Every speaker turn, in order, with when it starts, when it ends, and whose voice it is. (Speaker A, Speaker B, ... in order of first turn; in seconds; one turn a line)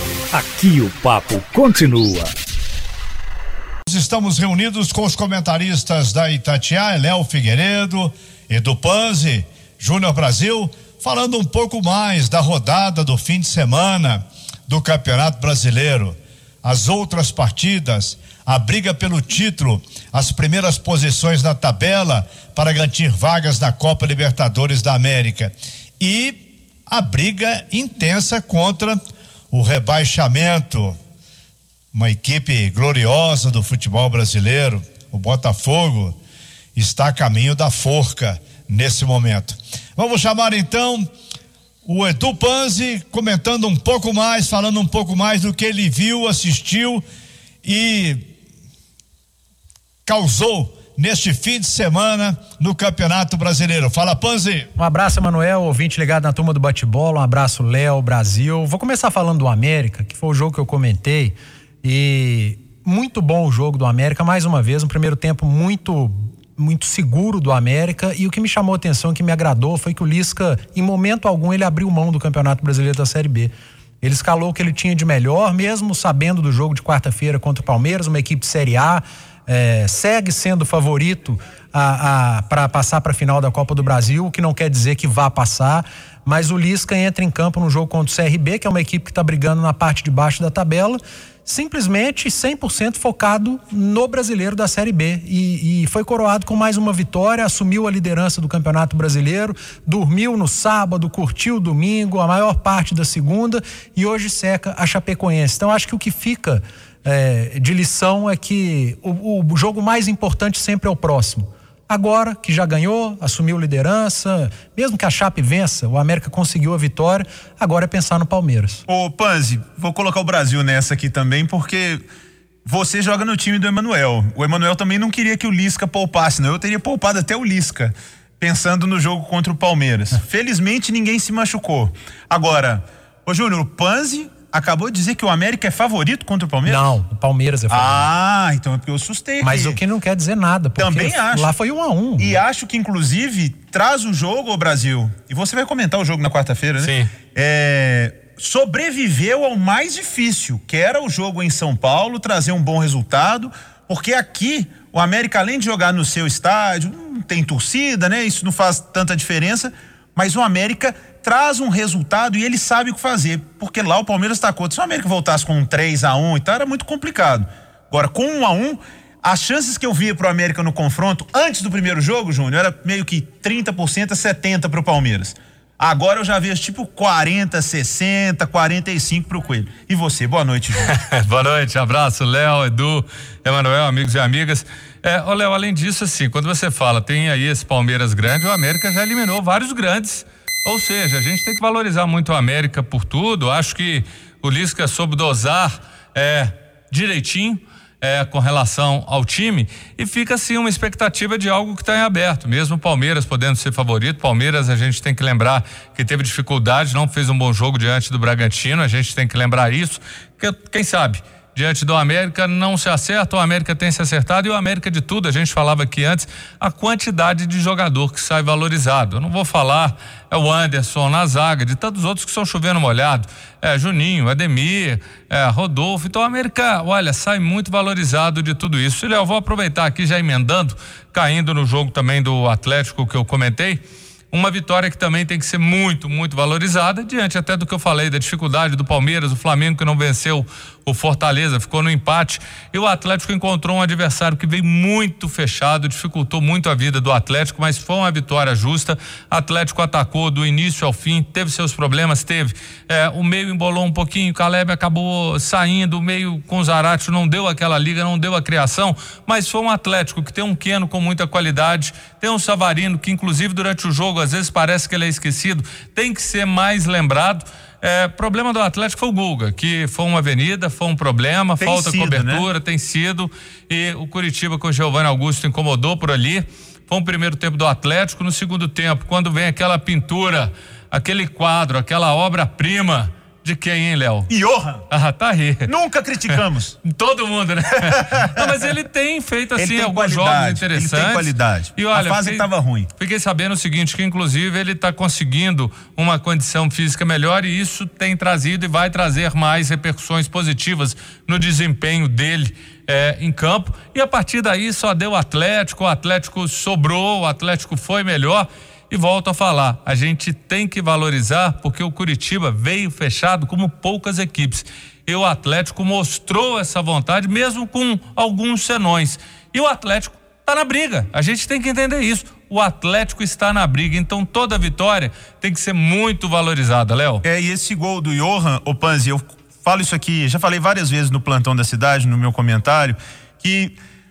Speaker A: 0.3-2.3
Speaker B: 3.9-29.0
Speaker B: 29.5-31.0
Speaker B: 31.9-36.2
Speaker B: 36.7-41.1
Speaker B: 41.8-47.0
Speaker B: 47.6-48.2
Speaker B: 50.0-54.7
Speaker C: 54.8-118.8
Speaker D: 118.9-122.0
Speaker D: 122.7-136.9
Speaker C: 136.6-138.1
Speaker D: 137.7-139.8
Speaker C: 139.4-142.4
Speaker D: 140.8-141.5
Speaker D: 142.2-180.9
Speaker E: 146.8-147.1
Speaker E: 180.8-284.3
Speaker D: 271.6-272.4
Speaker D: 284.3-284.8
Speaker E: 284.9-285.7
Speaker D: 285.7-286.8
Speaker E: 286.3-327.2
Speaker D: 288.1-288.5
Speaker D: 289.6-292.9
Speaker D: 327.2-333.8